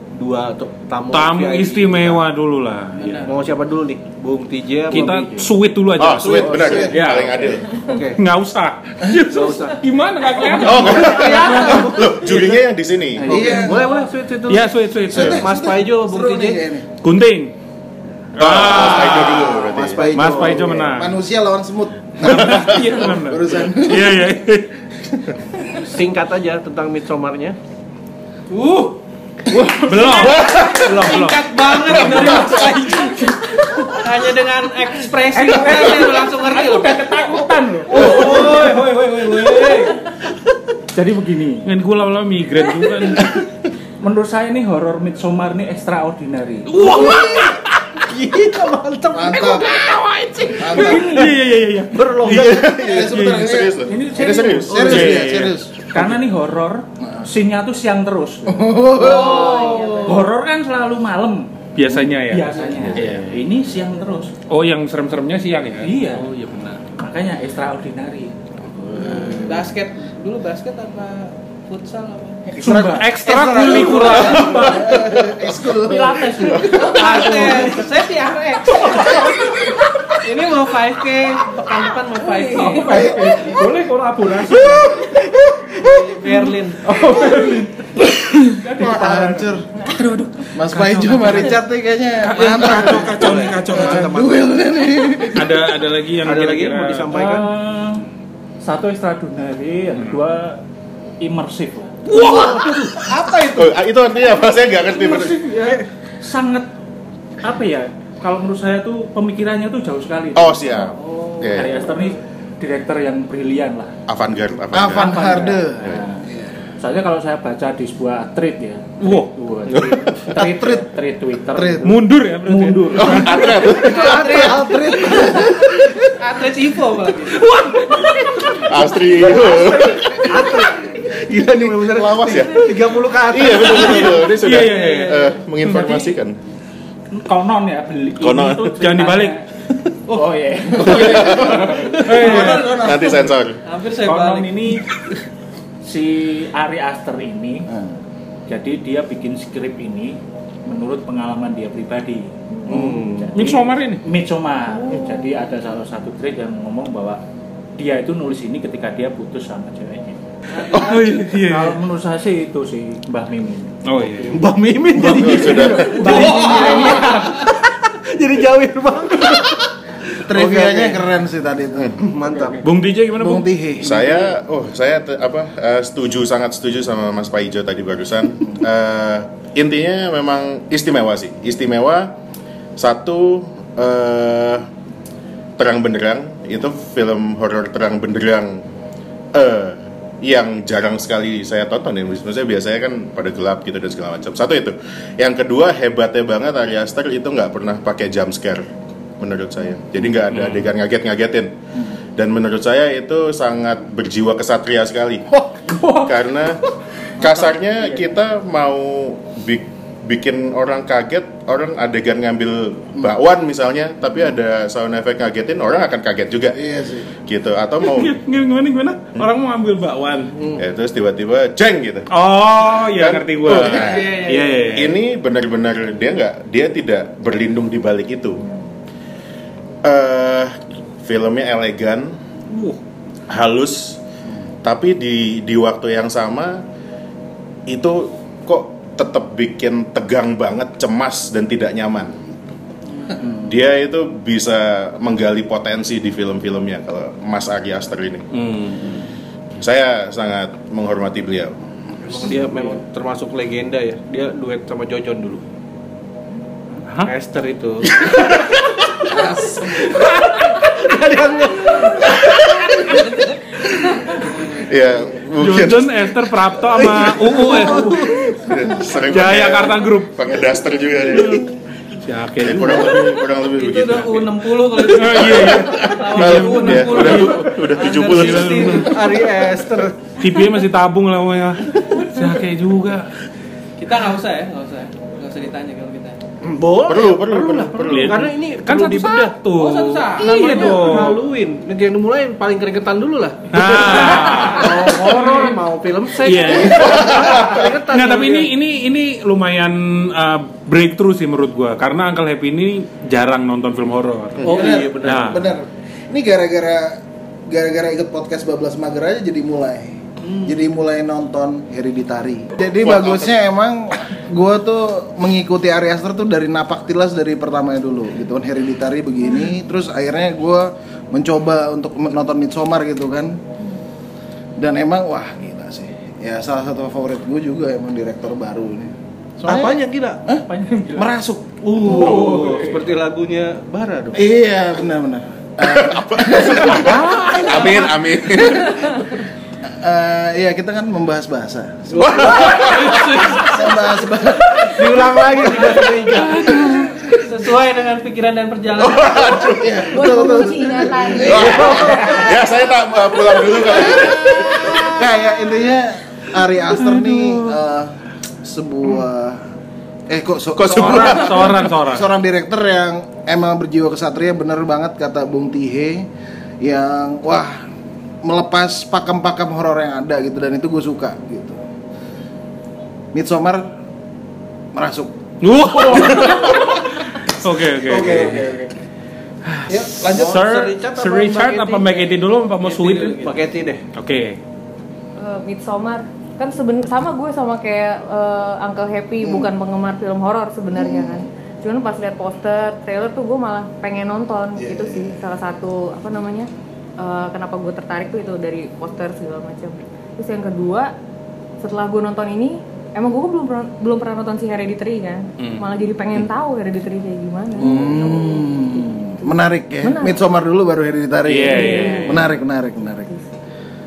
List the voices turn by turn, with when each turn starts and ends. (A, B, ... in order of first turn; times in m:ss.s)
0:00.2-0:02.2 A
0:01.1-0:03.3 B
0:02.9-0:03.3 C
0:03.2-0:05.3 A
0:04.9-0:05.4 D
0:04.9-0:07.5 B
0:06.0-0:07.8 E
0:06.3-0:08.2 A
0:06.5-0:07.1 F
0:08.2-0:11.9 B
0:09.2-0:09.8 A
0:10.5-0:12.7 A
0:10.6-0:13.5 E
0:13.2-0:13.8 D
0:13.2-0:13.9 F
0:13.3-0:16.6 A
0:14.5-0:15.4 B
0:15.1-0:16.8 F
0:17.0-0:17.5 B
0:18.4-0:21.2 B
0:18.4-0:20.0 E
0:18.7-0:20.7 A
0:19.7-0:24.2 F
0:22.2-0:24.7 B
0:22.3-0:22.7 E
0:25.7-0:27.6 A
0:28.5-0:29.0 C
0:29.8-0:33.9 B
0:29.8-0:33.0 C
0:30.2-0:30.8 E
0:31.8-0:32.8 E
0:33.9-0:37.2 C
0:35.3-0:38.5 D
0:37.9-0:38.9 A
0:37.9-0:39.3 B
0:37.9-0:39.9 C
0:39.4-0:39.7 A
0:40.9-0:41.6 D
0:41.6-0:43.3 B
0:44.0-0:46.8 D
0:46.7-0:48.0 B
0:46.8-0:49.5 A
0:49.1-0:51.3 F
0:49.3-0:53.5 B
0:50.9-0:51.3 A
0:51.9-0:52.7 A
0:52.2-0:55.3 E
0:52.5-0:54.0 F
0:53.9-0:55.1 D
0:54.7-0:55.8 F
0:54.7-0:56.1 B
0:55.9-0:59.1 D
0:58.4-0:59.4 F
0:59.0-1:00.1 C
0:59.0-1:00.1 A
0:59.2-1:00.1 G
1:00.0-1:04.3 D
1:01.7-1:03.5 B
1:04.5-1:06.8 B
1:05.8-1:06.3 D
1:06.9-1:08.3 D
1:08.9-1:09.5 F
1:09.0-1:09.4 B
1:09.4-1:12.5 C
1:12.5-1:17.4 F
1:12.6-1:13.1 D
1:12.6-1:14.9 B
1:13.4-1:14.5 C
1:14.3-1:14.9 D
1:14.4-1:15.4 E
1:15.8-1:17.8 D
1:16.8-1:19.2 C
1:18.9-1:19.2 D
1:20.2-1:23.0 C
1:22.5-1:25.0 D
1:22.9-1:23.5 F
1:24.6-1:25.8 F
1:25.8-1:26.8 C
1:26.8-1:27.8 D
1:28.6-1:29.4 D
1:28.6-1:29.7 F
1:29.8-1:31.5 B
1:30.5-1:35.8 F
1:32.2-1:34.2 B
1:32.6-1:34.6 A
1:35.3-1:37.1 B
1:36.2-1:37.5 A
1:37.1-1:38.0 D
1:38.6-1:40.6 D
1:41.2-1:42.0 D
1:42.1-1:42.9 B
1:42.2-1:43.5 A
1:43.5-1:45.4 E
1:44.9-1:46.7 D
1:45.5-1:45.9 A
1:47.4-1:53.9 D
1:50.3-1:51.8 E
1:51.0-1:52.1 C
1:54.1-1:56.0 E
1:54.7-1:56.6 F
1:54.9-1:56.2 D
1:56.8-2:03.3 D
1:59.0-1:59.3 B
1:59.7-2:00.3 E
2:00.3-2:00.9 F
2:01.5-2:02.0 F
2:01.8-2:03.5 B
2:02.9-2:04.4 E
2:03.6-2:05.3 C
2:04.0-2:05.7 F
2:06.2-2:07.5 C
2:07.3-2:08.7 B
2:08.5-2:10.4 E
2:09.1-2:14.2 A
2:11.9-2:12.7 E
2:13.3-2:16.4 E
2:13.7-2:16.0 B
2:13.8-2:15.4 C
2:17.1-2:19.4 D
2:18.2-2:18.8 E
2:18.8-2:19.4 B
2:20.1-2:22.6 D
2:20.8-2:21.7 E
2:21.6-2:22.3 A
2:22.0-2:22.8 B
2:22.2-2:23.3 F
2:22.3-2:23.6 E
2:22.3-2:22.8 C
2:23.6-2:24.6 C
2:24.0-2:24.8 D
2:25.8-2:27.6 D
2:27.7-2:27.9 F
2:28.5-2:37.2 D
2:32.7-2:33.4 A
2:33.3-2:34.0 B
2:37.8-2:40.2 D
2:40.5-2:41.2 C
2:40.7-2:41.8 B
2:41.3-2:44.3 D
2:43.8-2:44.4 B
2:44.3-2:49.7 A
2:45.0-2:46.2 E
2:45.0-2:47.4 D
2:45.3-2:46.3 B
2:50.3-2:51.0 A
2:50.3-2:52.4 F
2:52.0-2:52.6 A
2:52.6-2:53.5 B
2:53.1-2:54.3 F
2:53.8-3:02.1 E
3:02.8-3:04.6 E
3:05.6-3:08.6 E
3:09.3-3:18.6 E
3:19.2-3:21.5 E
3:20.2-3:20.7 B
3:22.2-3:25.2 E
3:25.6-3:26.1 D
3:25.9-3:26.6 E
3:27.2-3:36.6 E
3:36.5-3:37.1 F
3:37.2-3:38.2 E
3:37.8-3:40.3 B
3:40.3-3:40.6 A
3:40.5-3:42.1 E
3:42.1-3:45.0 B
3:42.9-3:44.2 E
3:43.5-3:44.9 C
3:44.7-3:48.4 E
3:49.8-3:52.2 E
3:52.5-3:52.8 B
3:53.3-3:54.0 E
3:54.6-3:56.6 E
3:57.7-4:02.2 E
4:03.4-4:09.0 E
4:08.3-4:09.0 B
4:09.6-4:11.6 E
4:12.1-4:12.7 C
4:12.1-4:15.4 A
4:17.0-4:18.0 A
4:18.0-4:18.3 E
4:19.1-4:20.1 C
4:19.2-4:22.3 A
4:22.7-4:24.6 C
4:24.6-4:26.1 E
4:25.4-4:28.2 B
4:26.7-4:28.5 A
4:28.4-4:31.5 E
4:29.0-4:30.1 B
4:31.1-4:31.4 B
4:32.0-4:33.2 B
4:32.4-4:38.9 E
4:33.0-4:39.1 C
4:34.9-4:39.0 B
4:38.8-4:40.1 A
4:40.2-4:43.1 B
4:43.8-4:46.2 C
4:46.4-4:49.3 A
4:46.8-4:48.2 E
4:47.9-4:51.2 B
4:49.5-4:51.1 C
4:50.2-4:58.5 A
4:53.5-4:55.6 B
4:54.2-4:54.6 C
4:56.2-5:05.5 B
4:56.8-4:57.4 E
5:04.4-5:04.7 E
5:04.4-5:05.4 A
5:04.5-5:23.4 F
5:12.8-5:13.3 E
5:24.6-5:31.6 F
5:29.4-5:30.2 A
5:30.4-5:31.1 D
5:31.6-5:34.2 A
5:31.8-5:32.7 D
5:31.9-5:32.4 E
5:34.1-5:37.0 F
5:35.6-5:39.0 E
5:36.8-5:37.8 B
5:37.2-5:37.7 A
5:39.7-5:42.6 F
5:41.9-5:42.8 A
5:42.0-5:43.2 E
5:42.5-5:44.1 C
5:43.2-5:45.1 F
5:44.6-5:46.5 A
5:45.5-5:46.2 C
5:46.1-5:47.0 B
5:47.1-5:49.5 C
5:48.8-5:50.1 E
5:49.5-5:52.3 F
5:49.9-5:52.2 G
5:51.2-5:55.0 E
5:53.8-5:59.4 F
5:54.4-5:54.8 G
5:56.8-5:57.5 B
6:00.1-6:06.1 F
6:00.6-6:01.5 E
6:00.7-6:02.1 B
6:06.6-6:07.6 F
6:08.2-6:11.6 F
6:13.1-6:13.7 F
6:14.7-6:15.1 F
6:15.4-6:18.5 B
6:15.8-6:16.6 F
6:17.8-6:18.7 F
6:19.4-6:23.3 B
6:19.7-6:20.4 F
6:20.0-6:23.8 A
6:23.9-6:24.4 B
6:25.2-6:40.9 G
6:29.2-6:29.5 F
6:30.7-6:31.3 F
6:34.6-6:35.2 F
6:41.6-6:49.2 G
6:45.4-6:45.6 B
6:47.6-6:53.1 F
6:49.8-6:50.2 G
6:51.3-6:52.2 B
6:51.5-6:52.2 G